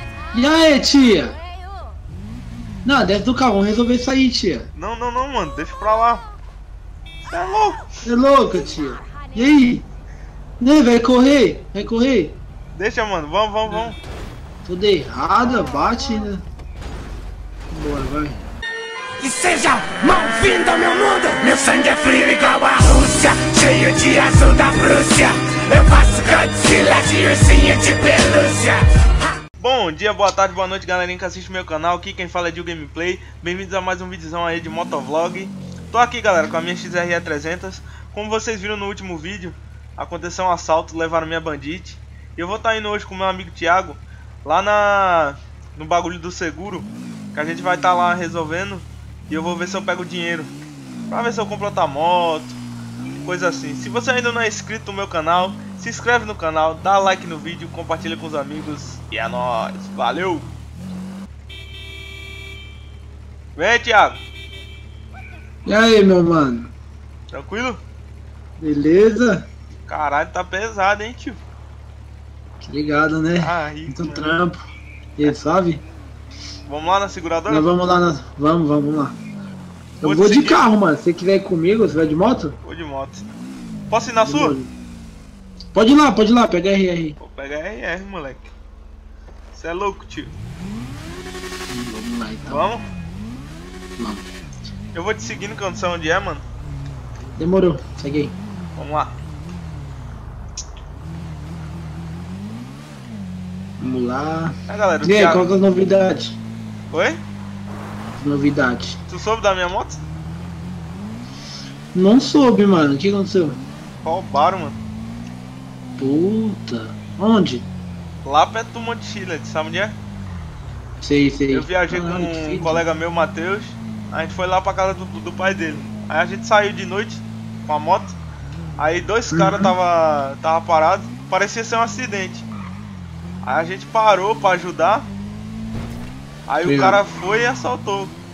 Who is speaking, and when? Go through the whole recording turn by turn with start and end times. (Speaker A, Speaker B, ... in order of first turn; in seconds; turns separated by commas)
Speaker A: 0.3-1.4, Speaker A: 2.9-4.7, Speaker B: 4.8-6.2, Speaker B: 7.2-7.9, Speaker A: 8.0-9.8, Speaker A: 10.6-12.4, Speaker B: 12.7-14.0, Speaker A: 14.7-16.4, Speaker A: 17.7-18.4, Speaker C: 19.2-28.9, Speaker B: 29.6-50.5, Speaker B: 51.1-52.6, Speaker B: 53.2-60.5, Speaker B: 63.6-64.2, Speaker A: 65.7-66.7, Speaker B: 67.3-67.8, Speaker A: 68.6-69.5, Speaker B: 69.9-71.4, Speaker A: 72.6-74.6, Speaker B: 73.3-74.4, Speaker A: 75.2-75.8, Speaker B: 76.7-77.7, Speaker A: 77.5-79.2, Speaker A: 80.0-82.6, Speaker B: 80.0-80.6, Speaker B: 82.6-83.2, Speaker B: 83.9-84.6, Speaker A: 84.2-84.7, Speaker A: 85.7-87.2, Speaker B: 87.2-88.5, Speaker B: 89.5-90.3, Speaker A: 91.7-92.6, Speaker B: 92.5-92.9, Speaker A: 94.0-94.3, Speaker B: 94.9-96.4, Speaker A: 97.4-98.4, Speaker B: 98.8-99.1, Speaker A: 103.8-106.4, Speaker B: 104.7-105.5, Speaker B: 106.9-107.2, Speaker A: 108.2-109.0, Speaker B: 109.1-110.0, Speaker A: 112.0-113.6, Speaker B: 114.0-114.8, Speaker A: 116.0-117.7, Speaker B: 118.2-120.0, Speaker A: 121.0-122.8, Speaker B: 121.5-128.2, Speaker B: 128.8-132.5, Speaker A: 129.3-129.7, Speaker B: 133.4-135.1, Speaker B: 136.5-138.2, Speaker A: 136.6-137.0